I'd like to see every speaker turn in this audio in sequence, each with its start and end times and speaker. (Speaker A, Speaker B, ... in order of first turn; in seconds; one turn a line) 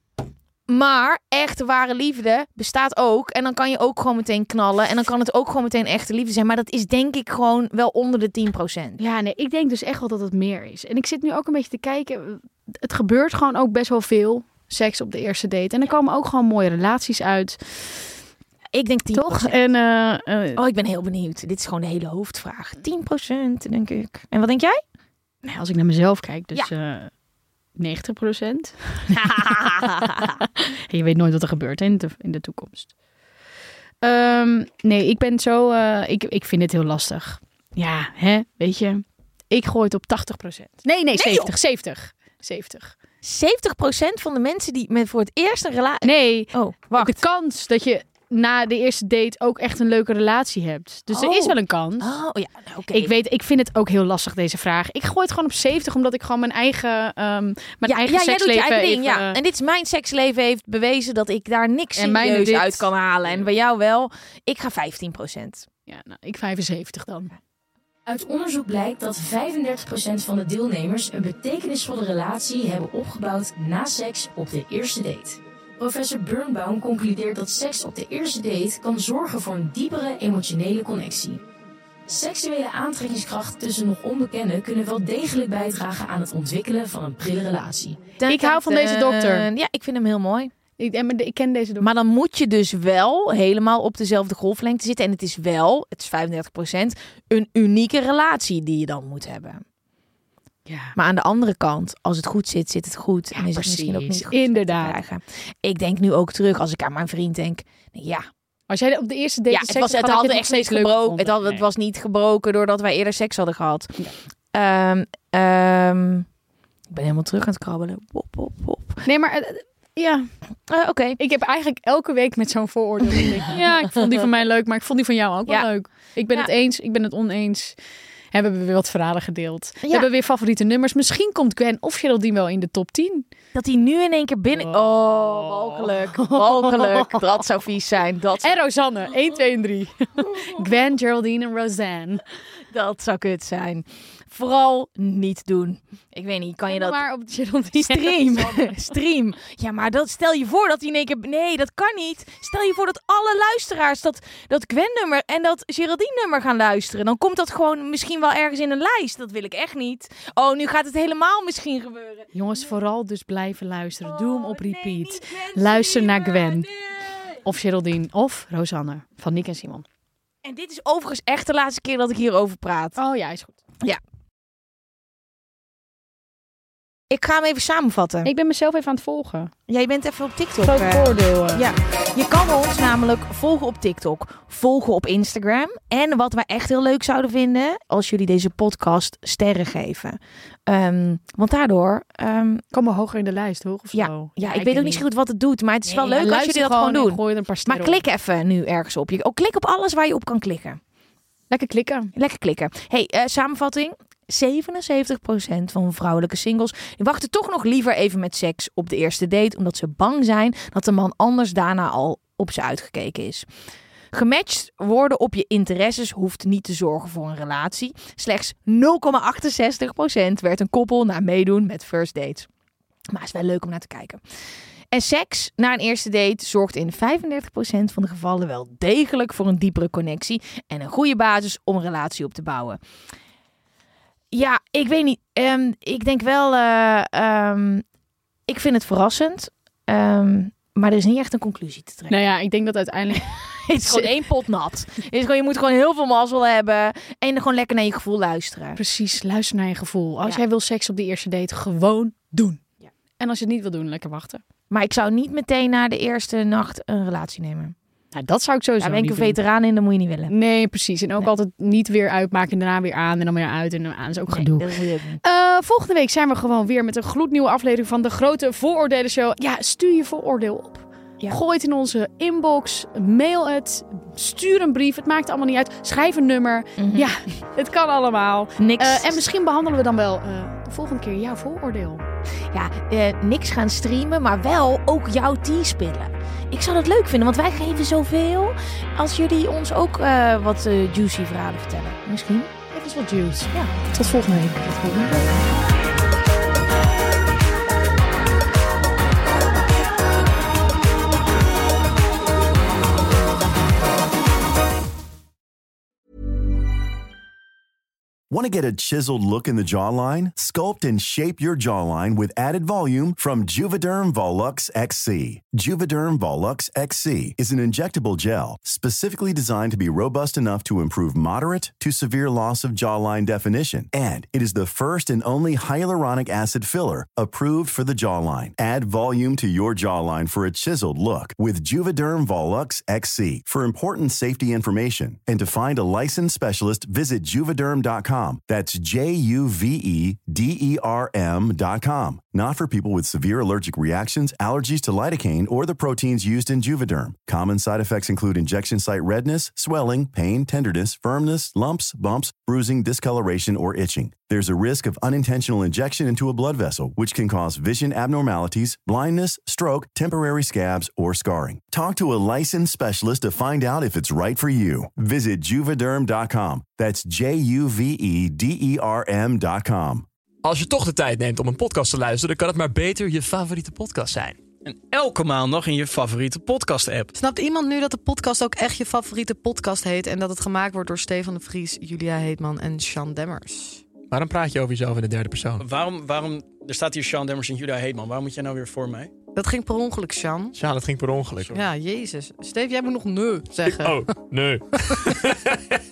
Speaker A: 0.7-9.0
Speaker B: 9.0-18.1
Speaker A: 18.7-19.6
Speaker B: 19.1-20.6
Speaker A: 20.6-24.8
Speaker B: 25.4-27.1
Speaker B: 27.8-32.9
Speaker A: 29.1-30.3
Speaker B: 34.0-42.9
Speaker A: 41.1-41.5
Speaker A: 43.2-47.2
Speaker B: 46.0-52.1
Speaker A: 51.1-53.1
Speaker B: 52.9-59.4
Speaker A: 57.8-65.7
Speaker B: 62.0-62.9
Speaker B: 65.9-67.3
Speaker C: 68.0-81.4
Speaker C: 82.0-88.1
Speaker A: 88.2-90.5
Speaker B: 88.2-89.5
Speaker B: 90.8-91.9
Speaker A: 91.8-99.6
Speaker B: 100.7-100.9
Speaker A: 100.9-108.3
Speaker B: 103.3-105.0
Speaker B: 108.7-111.6
Speaker A: 109.5-114.0
Speaker A: 114.5-116.3
Speaker A: 116.9-119.0
Speaker B: 119.0-120.3
Speaker A: 120.7-121.2
Speaker B: 121.2-127.8
Speaker A: 123.0-124.0
Speaker B: 128.3-133.2
Speaker A: 129.8-130.1
Speaker A: 133.5-138.6
Speaker B: 134.7-137.2
Speaker B: 138.4-142.2
Speaker A: 142.7-147.0
Speaker B: 146.7-148.8
Speaker A: 147.7-162.3
Speaker B: 162.3-166.7
Speaker A: 164.0-167.2
Speaker B: 167.3-169.8
Speaker A: 170.4-173.0
Speaker B: 173.0-173.6
Speaker A: 177.1-178.3
Speaker B: 178.2-179.5
Speaker A: 179.7-192.6
Speaker B: 180.6-181.6
Speaker B: 192.7-195.0
Speaker A: 193.9-200.8
Speaker B: 195.8-198.0
Speaker B: 201.5-202.1
Speaker A: 202.1-213.5
Speaker A: 214.1-222.5
Speaker A: 223.1-224.2
Speaker A: 224.9-232.8
Speaker A: 234.3-237.8
Speaker A: 238.5-242.1
Speaker B: 242.1-244.2
Speaker A: 243.1-248.8
Speaker B: 248.8-252.6
Speaker B: 253.2-254.4
Speaker A: 254.7-257.8
Speaker B: 258.1-259.4
Speaker A: 258.8-260.3
Speaker B: 260.3-264.7
Speaker A: 264.3-265.2
Speaker B: 265.2-282.0
Speaker A: 276.8-277.1
Speaker A: 278.6-279.2
Speaker A: 282.5-292.5
Speaker B: 292.7-295.4
Speaker D: 308.3-370.1
Speaker E: 370.4-374.4
Speaker F: 374.6-377.1
Speaker G: 377.1-383.9
Speaker E: 384.0-385.6
Speaker F: 385.6-389.1
Speaker G: 389.3-390.6
Speaker E: 390.5-391.6
Speaker G: 391.4-394.0
Speaker E: 393.8-395.4